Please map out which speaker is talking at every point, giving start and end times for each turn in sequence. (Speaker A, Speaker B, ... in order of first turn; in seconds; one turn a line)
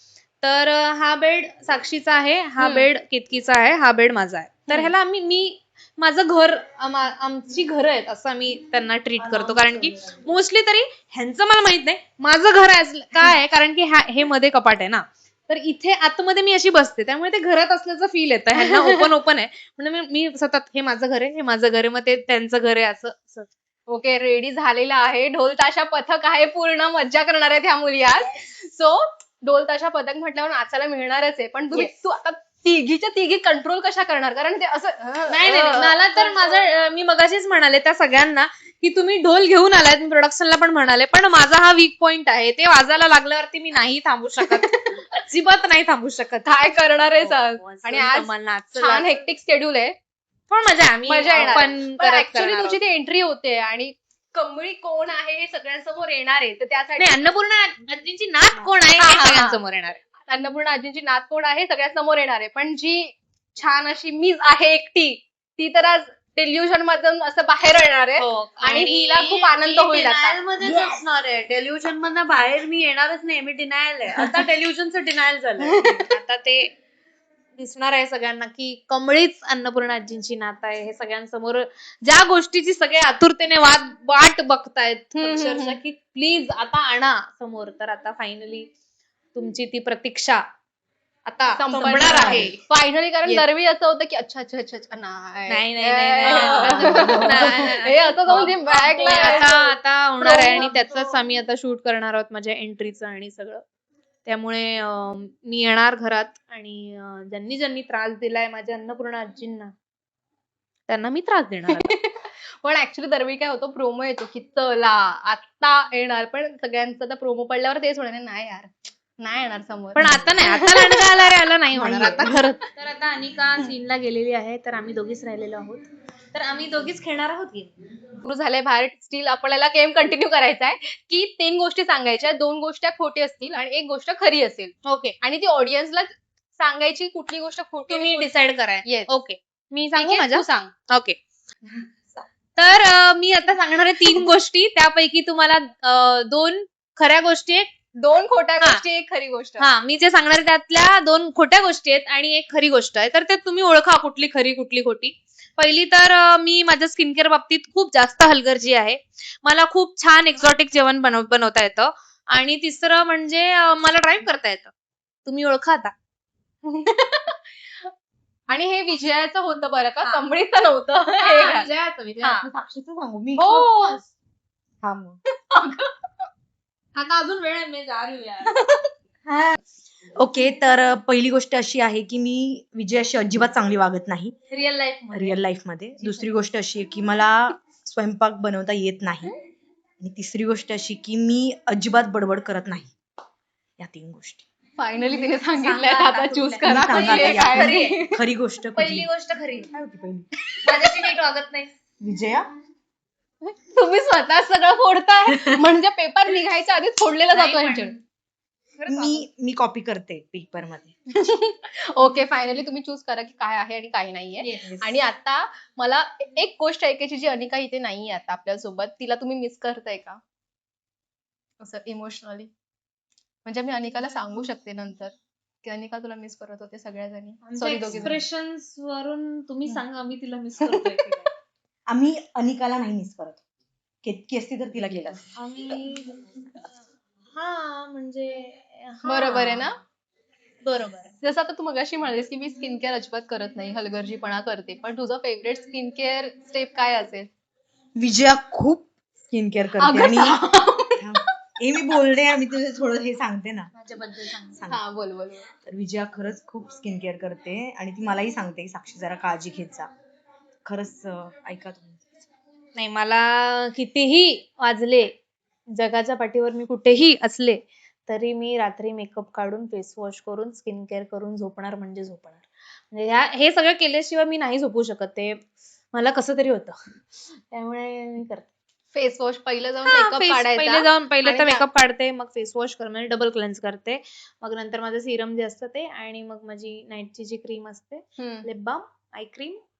Speaker A: 0.4-23.5
Speaker B: 2.6-2.9
Speaker B: 4.7-4.9
Speaker B: 18.6-19.0
Speaker B: 23.9-36.6
Speaker A: 35.3-46.6
Speaker B: 44.4-45.0
Speaker B: 46.4-49.9
Speaker A: 47.2-49.2
Speaker A: 50.5-52.8
Speaker B: 51.1-57.2
Speaker A: 57.0-60.0
Speaker B: 59.0-59.6
Speaker B: 60.2-70.4
Speaker A: 68.2-69.4
Speaker C: 69.2-75.8
Speaker B: 75.6-76.0
Speaker A: 75.7-76.7
Speaker A: 77.6-88.7
Speaker B: 85.2-85.8
Speaker A: 89.3-90.4
Speaker A: 91.2-92.6
Speaker B: 91.6-100.7
Speaker D: 91.7-92.5
Speaker A: 95.5-103.6
Speaker D: 96.4-97.8
Speaker A: 104.2-109.7
Speaker A: 110.9-111.9
Speaker B: 111.8-121.1
Speaker A: 120.0-127.7
Speaker D: 121.8-122.4
Speaker B: 121.8-122.3
Speaker B: 128.2-138.3
Speaker A: 134.8-135.2
Speaker A: 137.9-141.2
Speaker B: 138.8-139.1
Speaker B: 139.9-140.7
Speaker A: 142.6-147.7
Speaker B: 148.0-149.7
Speaker A: 149.6-164.7
Speaker A: 165.2-165.9
Speaker B: 166.6-167.9
Speaker B: 168.5-171.7
Speaker A: 171.2-172.5
Speaker D: 172.4-174.0
Speaker A: 173.4-174.0
Speaker D: 174.8-175.2
Speaker B: 175.3-175.9
Speaker A: 176.9-178.6
Speaker B: 178.5-178.9
Speaker D: 180.2-184.3
Speaker A: 184.5-185.4
Speaker D: 185.1-189.3
Speaker D: 190.0-192.9
Speaker D: 193.8-194.4
Speaker B: 194.8-198.2
Speaker A: 195.1-198.0
Speaker D: 196.6-199.1
Speaker A: 198.8-199.7
Speaker D: 199.7-200.4
Speaker A: 200.6-201.7
Speaker D: 202.0-202.5
Speaker B: 203.4-207.9
Speaker A: 207.3-208.0
Speaker A: 208.8-209.3
Speaker D: 208.9-211.0
Speaker B: 211.1-220.2
Speaker A: 214.4-214.9
Speaker B: 221.6-222.5
Speaker B: 223.4-225.1
Speaker B: 225.6-228.2
Speaker A: 227.4-231.3
Speaker D: 230.6-230.9
Speaker D: 231.9-233.4
Speaker D: 234.0-235.3
Speaker A: 235.3-236.6
Speaker A: 237.3-239.7
Speaker B: 239.1-239.8
Speaker A: 240.6-241.1
Speaker B: 241.2-247.3
Speaker D: 247.9-250.4
Speaker B: 249.8-251.0
Speaker D: 251.0-253.7
Speaker A: 253.8-254.6
Speaker B: 254.7-255.5
Speaker D: 255.6-259.9
Speaker D: 260.7-262.1
Speaker A: 262.8-265.1
Speaker A: 265.7-278.5
Speaker B: 278.9-281.7
Speaker A: 279.8-289.6
Speaker B: 288.2-288.5